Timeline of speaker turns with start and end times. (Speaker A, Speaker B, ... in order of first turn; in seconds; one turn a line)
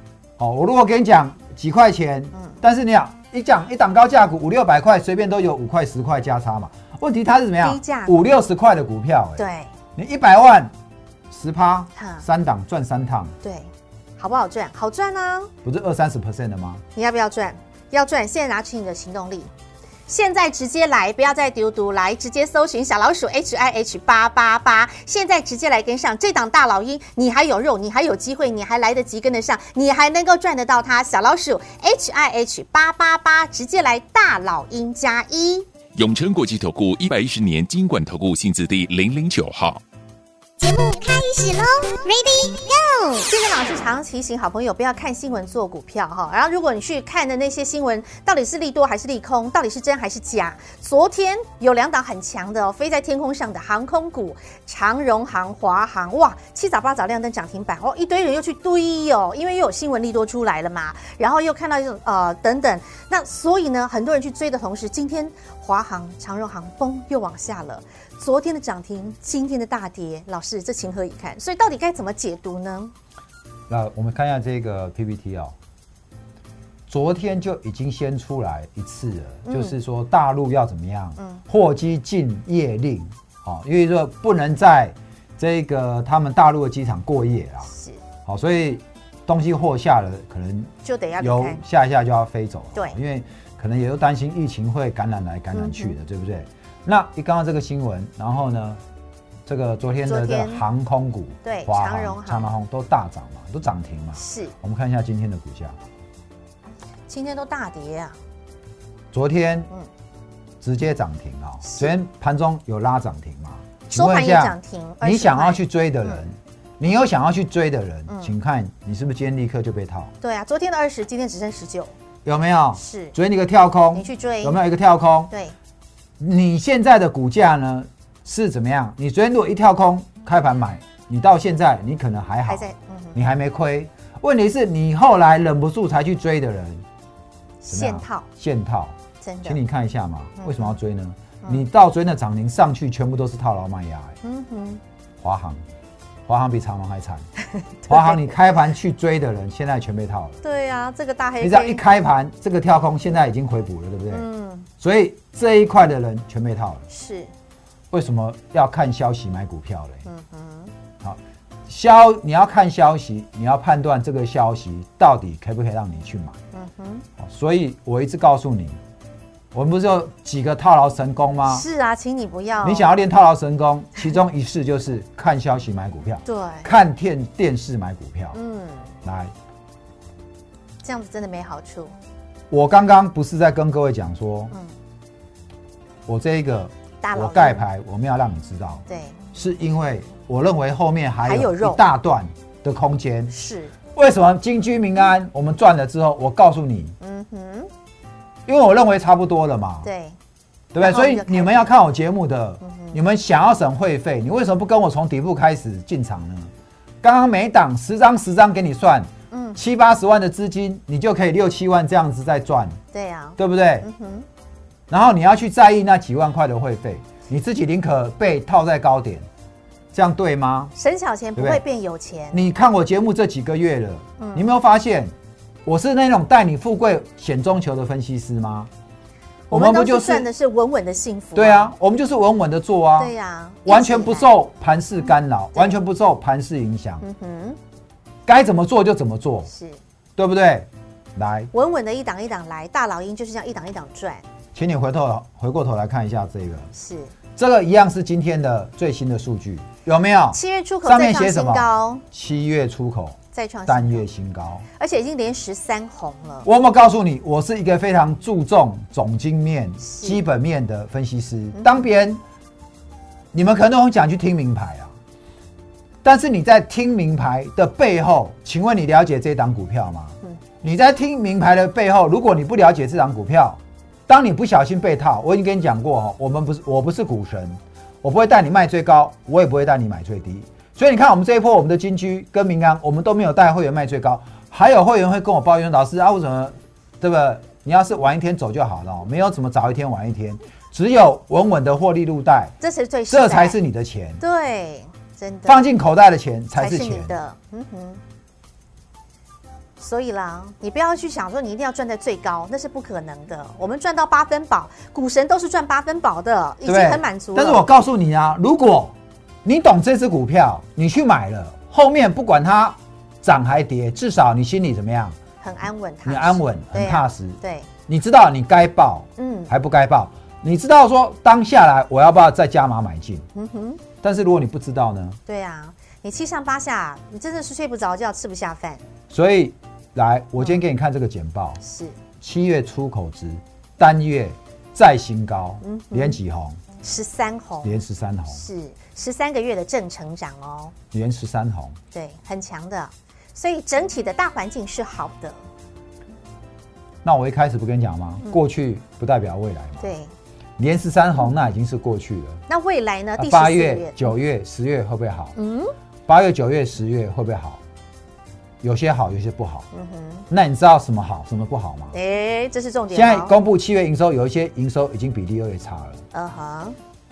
Speaker A: 0.4-9.4
Speaker B: 7.6-8.1
Speaker B: 9.4-9.7
Speaker A: 9.9-10.7
Speaker A: 11.3-13.3
Speaker B: 12.0-12.2
Speaker B: 13.4-15.5
Speaker A: 15.6-16.8
Speaker B: 16.9-19.5
Speaker B: 20.1-35.7
Speaker C: 35.9-39.8
Speaker D: 40.6-43.2
Speaker B: 43.2-72.9
Speaker A: 73.7-75.5
Speaker A: 76.9-87.7
Speaker B: 79.5-79.7
Speaker B: 87.7-88.0
Speaker A: 88.2-98.8
Speaker B: 90.8-91.6
Speaker B: 95.5-95.9
Speaker A: 99.5-105.8
Speaker B: 100.0-100.6
Speaker B: 101.4-102.5
Speaker B: 104.2-104.5
Speaker B: 107.1-108.2
Speaker A: 109.1-109.7
Speaker A: 110.6-120.1
Speaker B: 111.6-111.9
Speaker B: 113.9-116.2
Speaker B: 118.1-118.3
Speaker B: 120.2-121.9
Speaker A: 122.2-125.3
Speaker B: 122.8-123.1
Speaker B: 123.9-124.5
Speaker A: 126.2-136.8
Speaker B: 132.4-133.2
Speaker B: 137.6-138.3
Speaker A: 137.7-144.2
Speaker B: 139.2-139.6
Speaker B: 140.4-140.7
Speaker B: 144.2-144.8
Speaker A: 145.2-145.6
Speaker A: 146.3-147.2
Speaker B: 147.8-148.2
Speaker A: 147.9-150.4
Speaker B: 150.4-151.8
Speaker A: 151.4-154.2
Speaker B: 154.1-154.7
Speaker A: 154.8-156.8
Speaker B: 156.9-157.3
Speaker A: 157.9-160.0
Speaker B: 160.1-160.7
Speaker A: 161.0-166.4
Speaker B: 166.5-167.0
Speaker A: 167.2-168.8
Speaker A: 169.5-171.7
Speaker B: 171.4-172.9
Speaker A: 172.6-178.4
Speaker B: 176.2-176.7
Speaker B: 178.3-178.9
Speaker A: 179.0-179.3
Speaker B: 180.8-181.9
Speaker A: 182.5-184.5
Speaker A: 186.1-188.8
Speaker B: 187.0-187.7
Speaker B: 188.9-189.2
Speaker A: 189.3-193.3
Speaker B: 191.2-191.8
Speaker B: 193.3-193.7
Speaker A: 193.9-196.9
Speaker B: 197.0-197.7
Speaker A: 198.4-199.9
Speaker B: 199.8-200.2
Speaker A: 200.7-206.5
Speaker B: 200.8-201.7
Speaker B: 202.6-203.0
Speaker A: 207.0-212.8
Speaker B: 209.3-209.6
Speaker B: 212.9-214.2
Speaker A: 213.4-213.9
Speaker A: 214.9-219.2
Speaker A: 219.9-220.7
Speaker B: 220.8-222.4
Speaker A: 221.3-221.6
Speaker A: 222.3-225.1
Speaker B: 224.2-224.5
Speaker A: 225.6-228.7
Speaker B: 229.5-231.7
Speaker A: 229.5-230.3
Speaker A: 231.3-233.1
Speaker B: 233.0-234.3
Speaker A: 233.7-237.0
Speaker B: 237.0-237.6
Speaker A: 238.2-239.5
Speaker B: 239.5-239.8
Speaker A: 240.2-241.5
Speaker B: 241.5-244.2
Speaker A: 244.5-246.7
Speaker B: 246.7-247.1
Speaker A: 247.4-254.6
Speaker B: 250.3-252.0
Speaker B: 253.3-254.1
Speaker B: 254.8-256.5
Speaker A: 256.4-262.2
Speaker B: 259.8-260.2
Speaker B: 261.5-261.8
Speaker A: 263.3-264.9
Speaker A: 266.0-292.6
Speaker B: 292.6-293.6
Speaker A: 293.1-294.2
Speaker B: 294.2-295.6
Speaker A: 295.4-297.2
Speaker B: 296.6-298.0
Speaker B: 299.8-307.6
Speaker A: 306.6-315.1
Speaker B: 315.4-317.7
Speaker A: 316.1-323.2
Speaker B: 319.2-319.5
Speaker B: 323.3-323.8
Speaker A: 324.0-325.2
Speaker B: 325.3-328.8
Speaker A: 329.1-331.6
Speaker B: 331.6-331.9
Speaker A: 332.2-336.6
Speaker B: 335.6-336.2
Speaker B: 336.8-337.7
Speaker A: 337.6-338.4
Speaker B: 338.3-340.7
Speaker A: 340.9-341.8
Speaker B: 341.9-345.4
Speaker A: 347.0-349.9
Speaker B: 349.8-350.1
Speaker A: 350.6-352.4
Speaker B: 352.5-354.1
Speaker A: 353.2-355.3
Speaker B: 355.3-355.7
Speaker A: 356.1-357.6
Speaker A: 358.6-359.7
Speaker B: 359.7-360.2
Speaker A: 360.3-361.9
Speaker B: 361.9-363.3
Speaker A: 362.9-366.0
Speaker B: 366.1-366.8